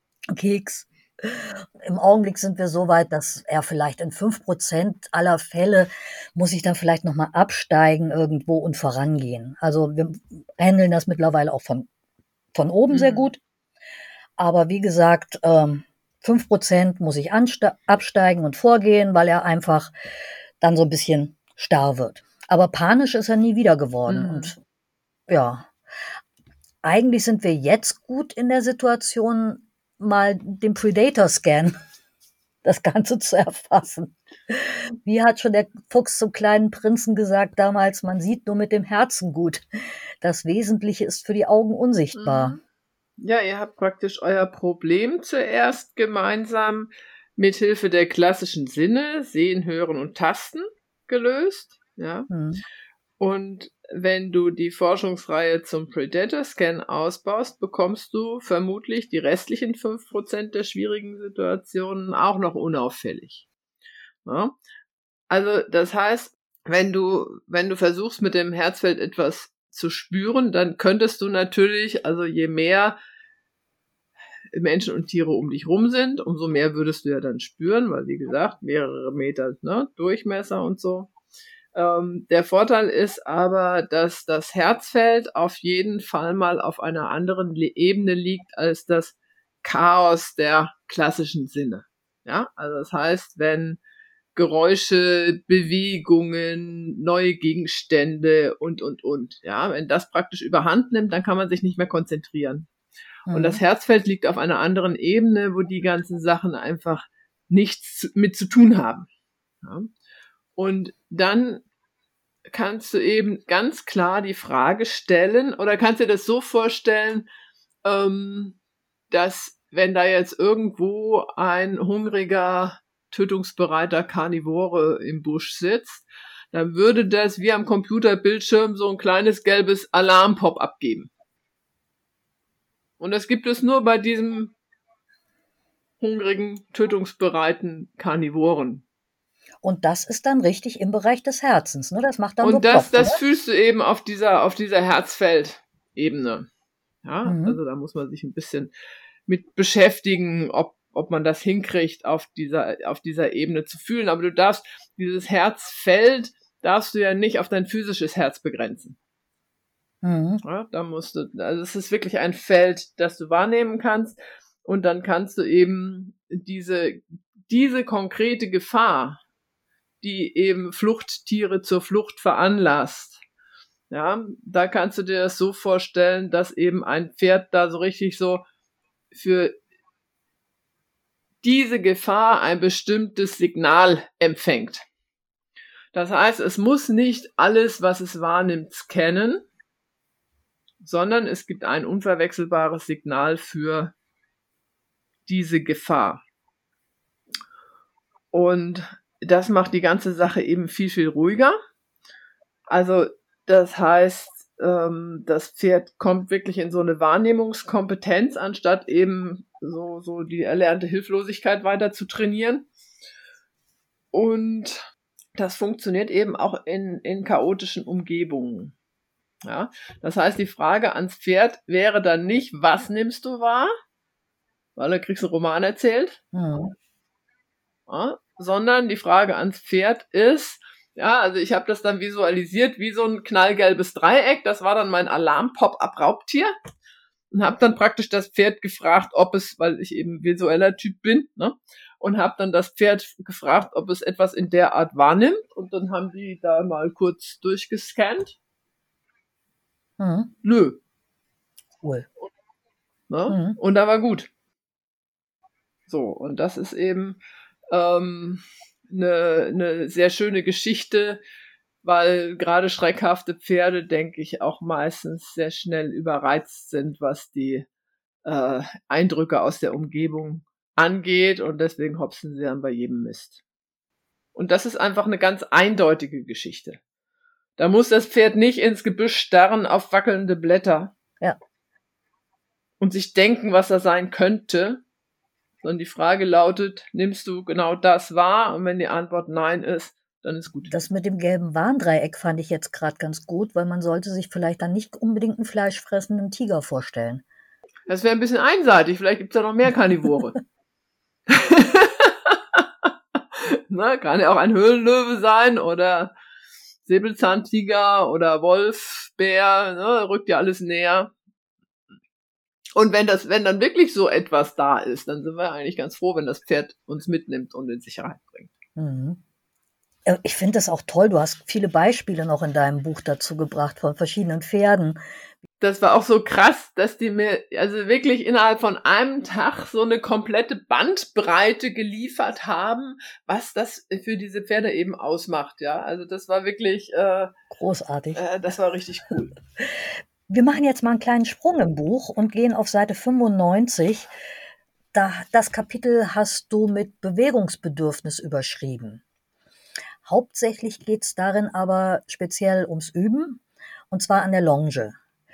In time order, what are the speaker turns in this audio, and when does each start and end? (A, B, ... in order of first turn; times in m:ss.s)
0:00.3-0:11.9 A
0:12.5-0:13.4 A
0:12.9-0:13.3 B
0:14.4-0:19.9 A
0:20.6-0:24.6 A
0:24.1-0:24.5 B
0:25.3-0:25.7 A
0:26.8-0:31.7 A
0:32.6-0:39.6 A
0:40.2-0:42.6 A
0:42.1-0:42.6 B
0:43.2-0:52.3 B
0:52.3-0:52.6 A
0:53.2-1:03.4 B
1:04.2-1:04.6 B
1:05.3-1:13.0 B
1:14.5-1:21.1 B
1:21.7-1:33.8 B
1:34.3-1:42.7 B
1:43.3-1:43.6 A
1:43.3-1:49.1 B
1:49.6-1:49.9 B
1:50.6-1:51.6 B
1:52.5-1:57.3 B
1:57.8-1:58.6 B
1:59.1-2:11.1 B
2:13.0-2:14.5 B
2:16.0-2:18.8 B
2:19.6-2:23.2 A
2:22.4-2:26.5 B
2:27.0-2:28.7 B
2:27.2-2:27.6 A
2:29.3-2:39.0 B
2:40.0-2:40.4 A
2:40.4-2:49.2 B
2:50.0-2:53.2 B
2:53.9-2:58.4 B
2:59.1-2:59.6 B
3:01.4-3:04.8 B
3:05.9-3:09.4 B
3:10.8-3:13.9 B
3:15.3-3:16.2 B
3:18.3-3:21.6 B
3:22.7-3:32.7 B
3:34.1-3:38.7 B
3:39.4-3:43.7 B
3:44.8-3:46.2 B
3:46.3-3:46.7 A
3:47.9-3:56.5 B
3:57.3-4:08.4 B
4:10.0-4:10.3 A
4:10.4-4:10.8 B
4:11.8-4:12.1 A
4:13.1-4:14.3 B
4:13.3-4:13.6 A
4:15.9-4:17.2 B
4:17.7-4:21.2 B
4:21.8-4:27.7 B
4:28.2-4:33.4 B
4:34.3-4:36.8 B
4:37.6-4:40.9 B
4:42.8-4:44.8 B
4:45.6-4:50.7 B
4:50.7-4:57.2 A
4:57.9-5:00.4 B
5:01.3-5:06.1 B
5:06.8-5:11.1 B
5:12.8-5:18.5 B
5:18.8-5:19.2 A
5:20.0-5:25.0 A
5:25.6-5:37.3 B
5:37.5-5:38.2 A
5:38.1-5:39.4 B
5:40.3-5:44.1 A
5:44.9-5:49.0 A
5:50.0-5:55.0 A